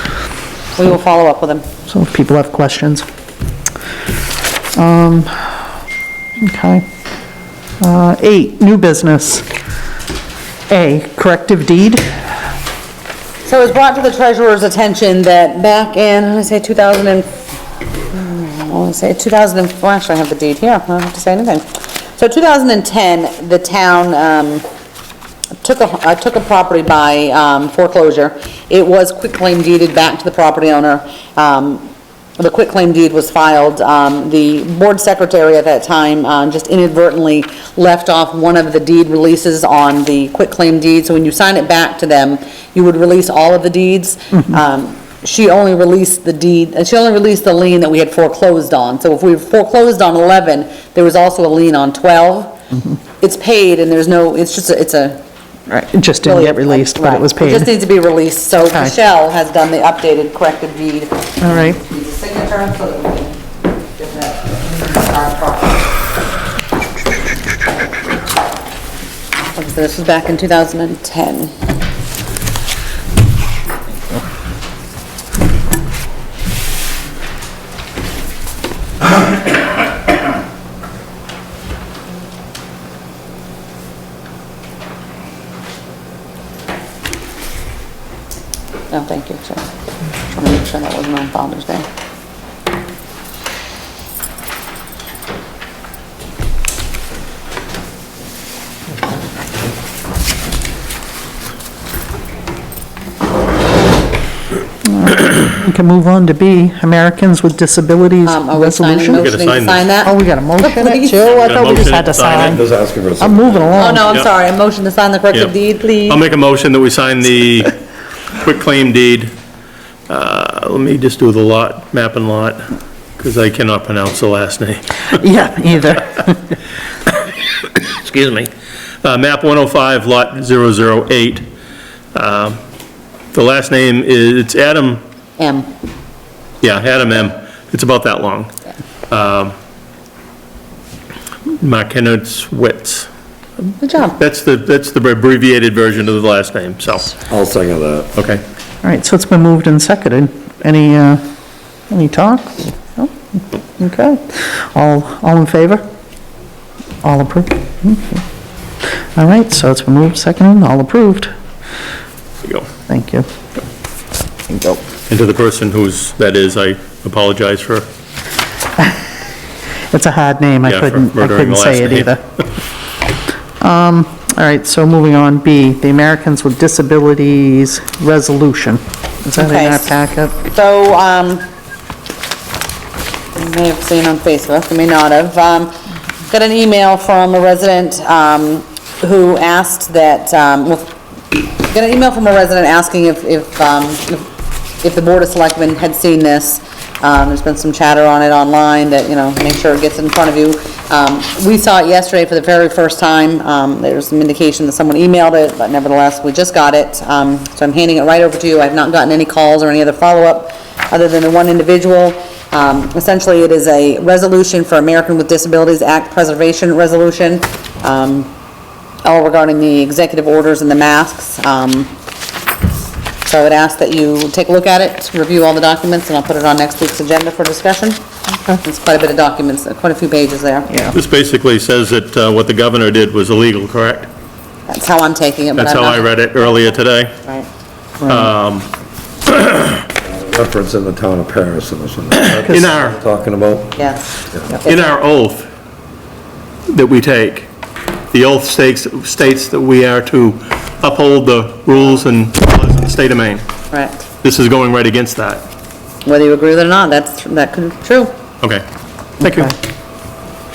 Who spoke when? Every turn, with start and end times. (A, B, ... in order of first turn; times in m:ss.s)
0:00.8-0:01.6 A
0:01.9-0:03.0 B
0:04.8-0:05.6 B
0:06.4-0:06.8 B
0:07.8-0:09.4 B
0:10.7-0:12.1 B
0:13.4-0:17.3 A
0:18.1-0:21.6 A
0:22.2-0:24.6 A
0:25.6-0:52.6 A
0:53.2-0:55.2 A
0:55.7-0:57.7 B
0:56.2-1:03.4 A
0:58.6-0:58.9 B
1:01.4-1:01.8 B
1:04.0-1:05.9 A
1:09.5-1:11.5 A
1:28.9-1:29.6 A
1:30.3-1:31.8 A
1:44.8-1:49.3 B
1:48.2-1:51.3 A
1:49.1-1:49.8 C
1:50.0-1:52.6 B
1:51.3-1:52.6 C
1:52.3-1:53.9 D
1:53.2-1:54.1 B
1:53.7-1:56.2 A
1:56.1-1:57.7 C
1:58.4-1:59.3 C
2:00.1-2:02.7 C
2:03.2-2:05.2 C
2:05.1-2:06.4 B
2:07.7-2:08.5 C
2:09.0-2:11.5 C
2:12.1-2:12.6 C
2:13.3-2:15.0 C
2:15.4-2:15.7 A
2:16.6-2:18.5 C
2:19.1-2:19.5 C
2:21.6-2:23.1 C
2:23.8-2:24.2 A
2:24.2-2:27.2 C
2:27.3-2:28.1 D
2:28.2-2:28.4 C
2:28.8-2:31.2 B
2:31.9-2:33.1 B
2:33.8-2:35.8 B
2:37.0-2:38.2 B
2:39.2-2:41.3 B
2:42.4-2:42.7 C
2:42.9-2:43.3 B
2:44.5-2:44.8 B
2:45.1-2:47.9 C
2:49.9-2:52.2 B
2:50.6-2:52.1 C
2:53.6-3:00.3 B
2:59.4-3:01.5 A
3:03.3-3:05.7 A
3:06.3-3:14.3 A
3:14.8-3:38.3 A
3:39.0-3:41.9 A
3:43.2-3:48.0 A
3:48.6-3:50.8 A
3:50.7-3:50.9 B
3:50.9-3:54.1 C
3:54.7-3:57.5 A
3:55.5-3:57.2 C
3:58.0-3:58.7 C
3:59.2-3:59.8 C
4:00.0-4:03.8 D
4:02.2-4:03.0 C
4:03.8-4:04.9 A
4:04.6-4:05.5 C
4:06.7-4:07.5 C
4:08.1-4:13.4 C
4:13.7-4:14.0 A
4:14.2-4:15.4 C
4:16.0-4:18.1 A
4:19.2-4:19.5 C
4:19.2-4:19.5 B